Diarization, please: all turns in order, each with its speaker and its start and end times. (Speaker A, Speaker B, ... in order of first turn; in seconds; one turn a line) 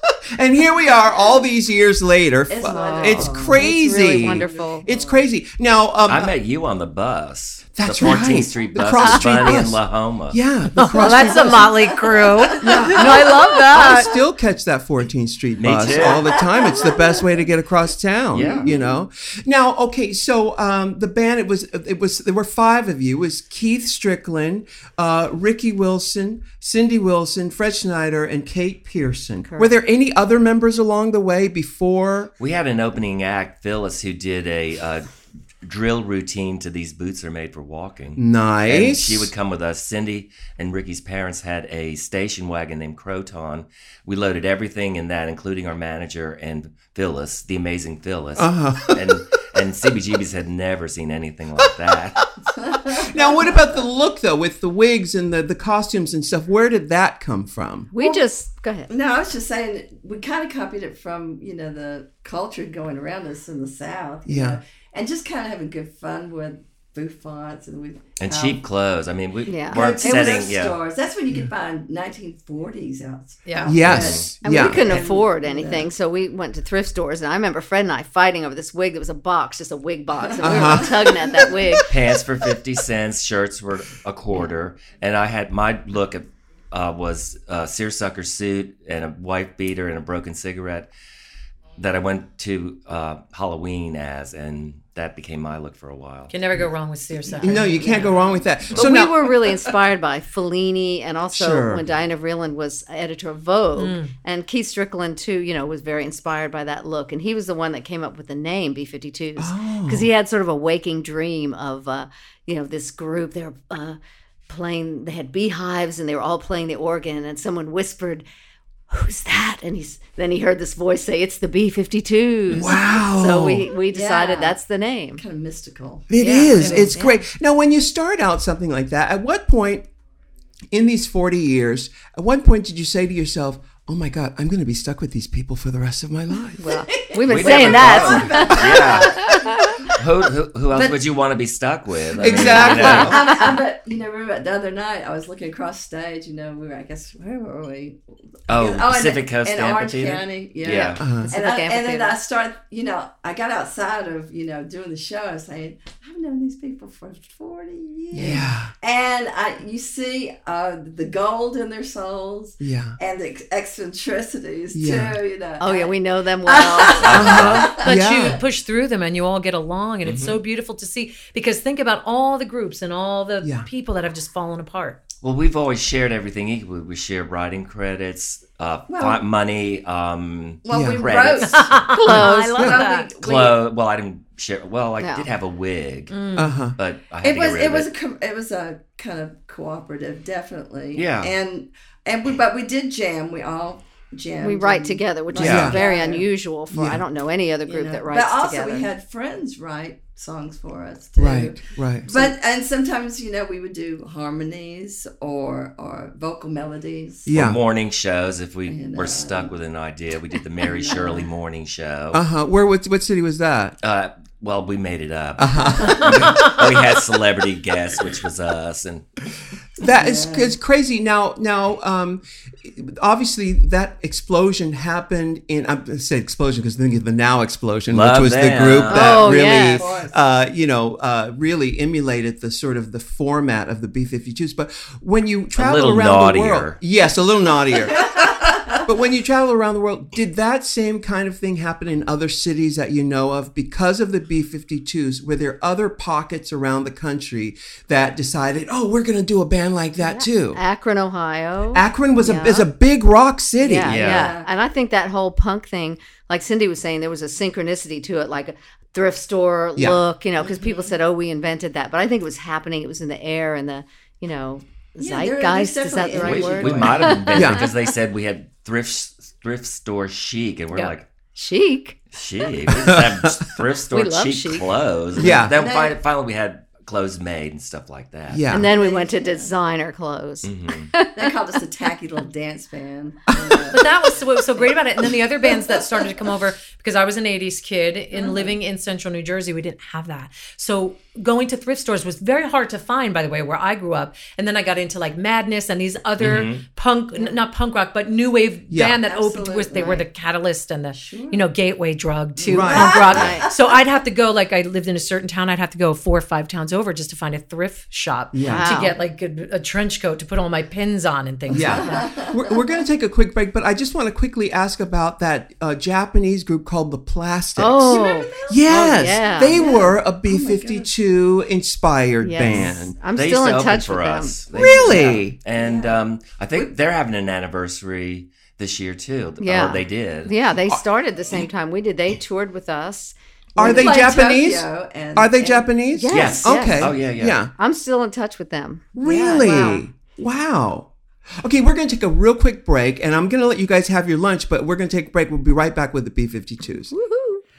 Speaker A: 0.3-6.3
Speaker B: 2.5-5.2
Speaker C: 2.7-4.9
Speaker D: 6.1-10.4
Speaker A: 7.8-11.8
Speaker C: 8.9-9.6
Speaker E: 10.8-14.1
Speaker B: 12.2-14.2
Speaker A: 12.6-32.3
Speaker D: 15.6-16.4
Speaker B: 15.8-17.4
Speaker D: 18.3-18.7
Speaker B: 18.3-19.0
Speaker C: 29.4-29.7
Speaker D: 32.4-35.1
Speaker D: 35.6-52.2
Speaker A: 38.2-39.3
Speaker A: 48.4-49.2
Speaker B: 52.4-53.8
Speaker A: 52.9-57.9
Speaker C: 57.9-58.9
Speaker B: 58.0-58.3
Speaker B: 58.9-68.6
Speaker A: 64.2-64.6
Speaker D: 68.2-70.8
Speaker C: 69.5-70.3
Speaker B: 69.7-75.9
Speaker E: 73.5-73.8
Speaker A: 73.6-75.0
Speaker D: 73.8-74.3
Speaker C: 74.4-81.9
Speaker B: 80.3-81.8
Speaker A: 80.4-81.0
Speaker D: 81.9-90.9
Speaker D: 91.8-96.3
Speaker E: 96.3-98.3
Speaker A: 97.4-99.2
Speaker C: 98.7-114.0
Speaker A: 101.3-101.8
Speaker E: 103.8-104.1
Speaker A: 109.4-110.1
Speaker C: 114.5-118.2
Speaker C: 118.9-125.2
Speaker A: 122.5-123.7
Speaker B: 123.8-124.6
Speaker B: 125.2-127.2
Speaker A: 126.1-129.8
Speaker C: 126.2-126.9
Speaker A: 130.7-136.6
Speaker C: 136.6-139.9
Speaker B: 136.7-139.7
Speaker D: 137.3-139.3
Speaker D: 139.9-143.4
Speaker B: 140.7-141.0
Speaker B: 142.2-168.1
Speaker A: 142.2-143.2
Speaker C: 142.4-143.5
Speaker D: 148.5-151.0
Speaker A: 151.0-151.3
Speaker C: 151.2-152.2
Speaker A: 158.1-158.7
Speaker A: 162.6-163.0
Speaker A: 164.7-165.2
Speaker C: 165.6-167.3
Speaker D: 167.0-167.7
Speaker A: 167.1-168.4
Speaker E: 167.8-175.0
Speaker D: 170.0-170.4
Speaker A: 173.4-173.7
Speaker D: 175.2-181.7
Speaker B: 178.9-179.2
Speaker B: 180.6-183.6
Speaker A: 180.7-181.1
Speaker E: 181.4-183.1
Speaker C: 181.9-182.8
Speaker A: 182.1-182.8
Speaker D: 183.2-186.1
Speaker C: 185.0-185.2
Speaker E: 186.1-186.6
Speaker A: 186.3-186.8
Speaker D: 186.8-187.9
Speaker B: 187.2-196.3
Speaker D: 190.9-191.3
Speaker C: 194.4-198.9
Speaker D: 195.4-195.7
Speaker A: 195.4-195.8
Speaker A: 196.7-197.0
Speaker B: 197.7-207.3
Speaker A: 201.2-202.3
Speaker A: 207.2-207.6
Speaker D: 207.3-212.2
Speaker B: 208.7-209.5
Speaker B: 210.7-211.3
Speaker A: 212.1-213.8
Speaker D: 213.8-219.1
Speaker A: 215.4-216.5
Speaker B: 215.7-216.1
Speaker A: 219.8-250.6
Speaker B: 219.8-220.6
Speaker D: 227.9-229.3
Speaker C: 228.9-229.9
Speaker B: 229.1-230.2
Speaker D: 235.6-236.8
Speaker B: 238.0-238.8
Speaker C: 250.0-252.7
Speaker A: 251.7-254.0
Speaker C: 253.6-267.8
Speaker D: 253.9-254.3
Speaker B: 253.9-254.5
Speaker B: 260.4-260.9
Speaker B: 265.0-267.2
Speaker D: 266.1-271.1
Speaker A: 267.3-267.7
Speaker C: 271.3-272.0
Speaker D: 272.1-278.5
Speaker A: 272.7-273.5
Speaker C: 273.9-275.4
Speaker A: 275.2-275.5
Speaker B: 275.2-276.0
Speaker A: 278.3-278.7
Speaker C: 278.5-281.4
Speaker B: 278.5-279.5
Speaker D: 280.4-280.9
Speaker B: 281.1-283.9
Speaker A: 283.4-283.7
Speaker E: 283.7-312.1
Speaker B: 288.1-288.5
Speaker D: 296.2-296.6
Speaker A: 298.7-299.0
Speaker B: 299.0-300.1
Speaker B: 300.9-301.5
Speaker B: 302.4-303.5
Speaker A: 302.5-303.1
Speaker C: 302.8-303.5
Speaker A: 308.3-308.9
Speaker C: 308.4-308.9
Speaker A: 311.5-322.9
Speaker B: 311.5-312.6
Speaker C: 317.6-319.8
Speaker B: 317.8-320.9
Speaker C: 322.2-325.1
Speaker D: 323.1-330.3
Speaker A: 324.5-325.4
Speaker B: 325.5-326.0
Speaker C: 329.4-334.0
Speaker A: 333.6-337.5
Speaker B: 333.6-335.8
Speaker C: 335.9-337.0
Speaker D: 336.1-337.4
Speaker C: 337.5-339.8
Speaker A: 338.9-340.9
Speaker A: 341.4-346.9
Speaker C: 346.9-347.4